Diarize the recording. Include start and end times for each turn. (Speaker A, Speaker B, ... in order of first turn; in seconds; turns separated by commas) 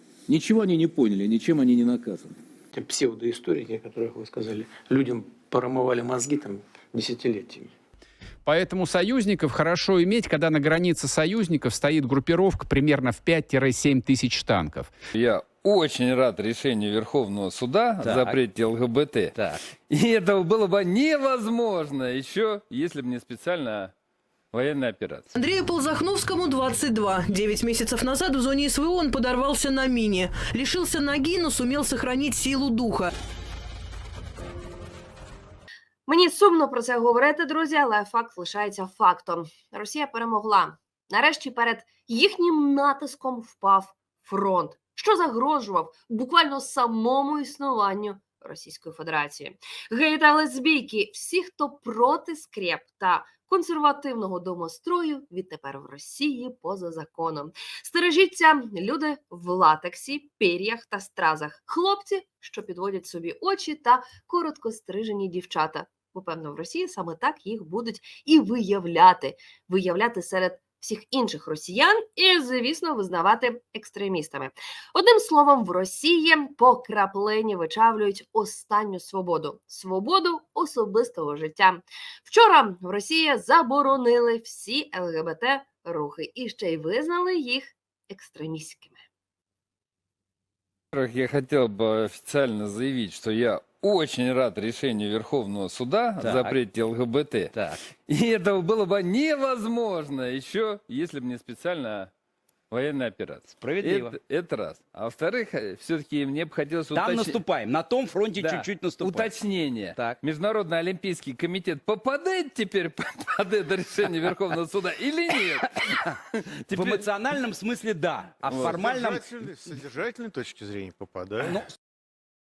Speaker A: 0.3-2.4, Speaker B: 2.7-7.8, Speaker C: 8.4-14.9, Speaker D: 15.1-23.9, Speaker D: 24.5-25.3, Speaker E: 25.4-33.1, Speaker F: 36.1-89.0, Speaker D: 90.9-102.1, Speaker D: 102.7-107.4, Speaker G: 103.6-104.2, Speaker G: 106.9-109.4, Speaker D: 108.4-116.0, Speaker D: 116.7-117.0, Speaker G: 116.7-119.3, Speaker D: 118.5-118.8, Speaker H: 118.8-121.5, Speaker G: 121.4-121.7